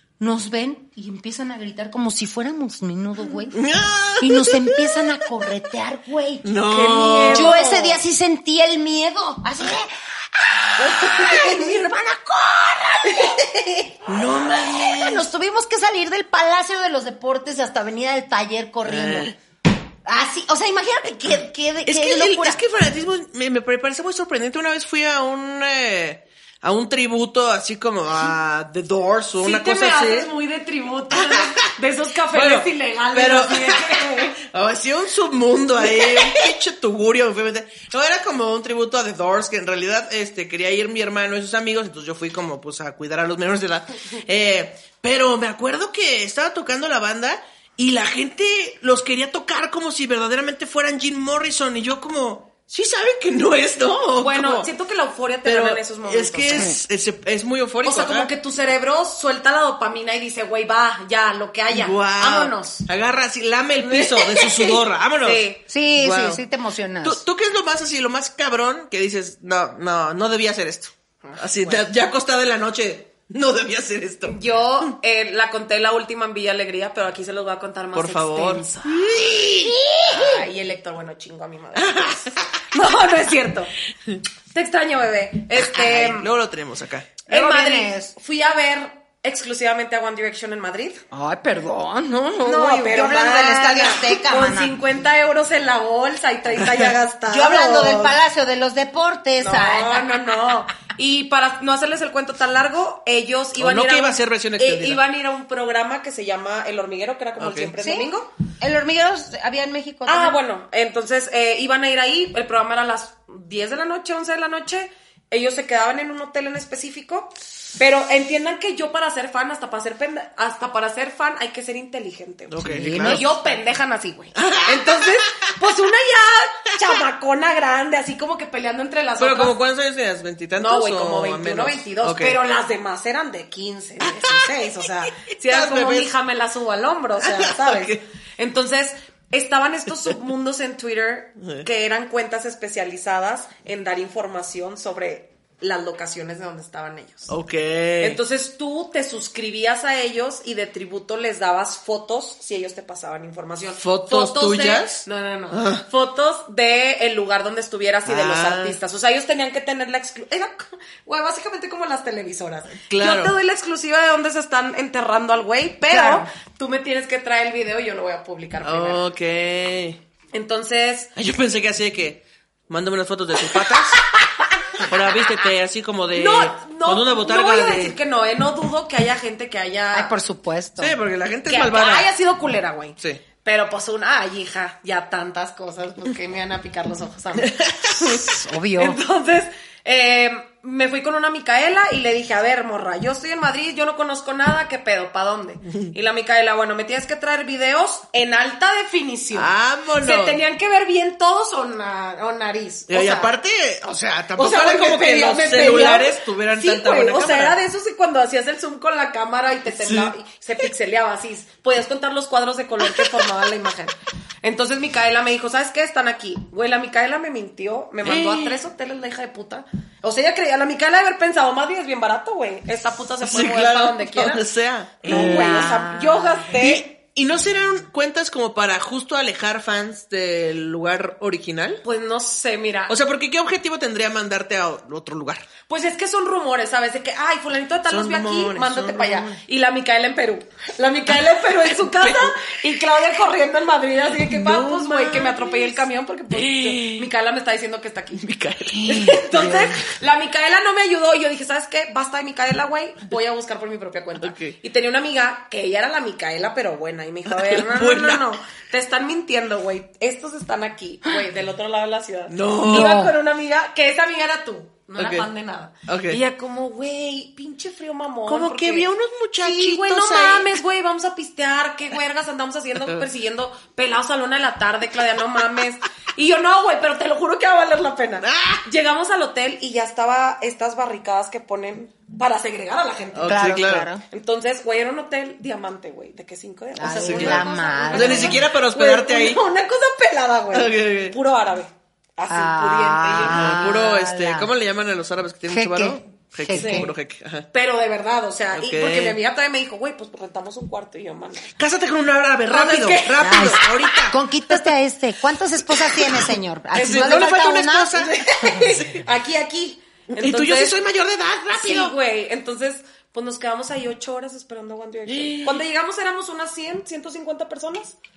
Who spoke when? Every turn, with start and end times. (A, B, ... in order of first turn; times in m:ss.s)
0:00.2-0:03.6 A
0:03.5-0:05.0 B
0:04.2-0:06.6 A
0:06.4-0:07.6 B
0:06.6-0:08.0 C
0:07.2-0:19.3 A
0:14.1-0:15.2 B
0:18.8-0:19.4 B
0:20.1-0:22.6 A
0:21.8-0:30.3 B
0:29.4-0:34.4 C
0:31.1-0:31.7 B
0:32.3-0:54.7 B
0:35.9-0:36.4 C
0:54.2-0:56.7 C
0:55.4-0:58.3 B
0:57.8-1:02.9 C
1:01.7-1:06.4 B
1:03.8-1:05.6 C
1:05.7-1:07.2 A
1:07.0-1:14.9 B
1:11.2-1:11.8 C
1:14.3-1:18.9 C
1:18.0-1:19.8 B
1:19.7-1:20.4 A
1:20.1-1:23.7 C
1:21.8-1:22.4 B
1:24.5-1:26.3 C
1:25.8-1:26.0 A
1:25.8-1:27.2 B
1:27.3-1:28.1 A
1:27.3-1:31.0 C
1:31.1-1:34.8 A
1:32.4-1:38.2 C
1:36.6-1:36.9 B
1:37.3-1:40.1 A
1:39.4-1:48.3 C
1:43.6-1:45.0 B
1:47.4-1:47.7 B
1:47.8-1:50.4 A
1:50.1-2:09.6 C
2:02.5-2:03.2 B
2:02.6-2:03.4 A
2:04.4-2:05.4 B
2:09.2-2:12.4 B
2:10.6-2:27.3 C
2:14.0-2:14.5 B
2:15.1-2:16.1 B
2:17.2-2:18.0 B
2:21.4-2:21.7 B
2:27.3-2:28.2 B
2:28.0-2:49.0 C
2:33.8-2:35.8 B
2:38.1-2:38.8 B
2:42.9-2:43.3 B
2:45.9-2:46.3 A
2:48.6-2:50.0 B
2:50.3-2:51.1 C
2:51.2-2:54.0 B
2:54.8-2:58.0 B
2:56.1-3:00.1 C
2:59.9-3:01.0 A
3:00.8-3:02.1 B
3:01.5-3:08.3 C
3:07.4-3:08.2 B
3:08.2-3:09.0 A
3:08.8-3:23.3 C
3:19.3-3:20.4 B
3:22.9-3:27.6 B
3:24.4-3:44.4 C
3:29.8-3:30.1 B
3:38.0-3:38.6 B
3:43.2-3:51.8 B
3:45.0-3:46.9 C
3:45.1-3:45.8 A
3:51.8-3:53.0 C
3:52.9-3:55.5 B
3:55.7-4:08.2 C
3:57.9-3:59.4 B
4:01.7-4:02.3 B
4:04.2-4:05.8 B
4:06.3-4:07.1 B
4:08.2-4:09.7 B
4:08.7-4:09.6 A
4:08.8-4:28.9 C
4:14.2-4:14.6 B
4:17.3-4:18.3 B
4:22.3-4:23.0 B
4:22.6-4:23.2 A
4:25.0-4:25.3 B
4:25.9-4:26.2 B
4:28.3-4:30.5 B
4:29.4-4:43.5 C
4:38.2-4:38.6 B
4:43.2-4:43.9 B
4:43.3-4:44.0 A
4:44.1-4:53.7 C
4:46.8-4:48.4 A
4:46.9-4:49.4 B
4:50.5-4:51.2 B
4:52.3-4:54.5 A
4:53.2-4:57.5 B
4:55.5-4:56.9 A
4:56.5-4:56.9 C
4:57.5-5:01.5 C
4:58.5-4:59.2 B
5:01.6-5:04.2 B
5:02.5-5:04.0 C
5:03.2-5:08.5 A
5:05.9-5:09.0 B
5:08.3-5:10.8 C
5:10.1-5:11.9 B
5:11.5-5:18.0 C
5:15.1-5:15.6 B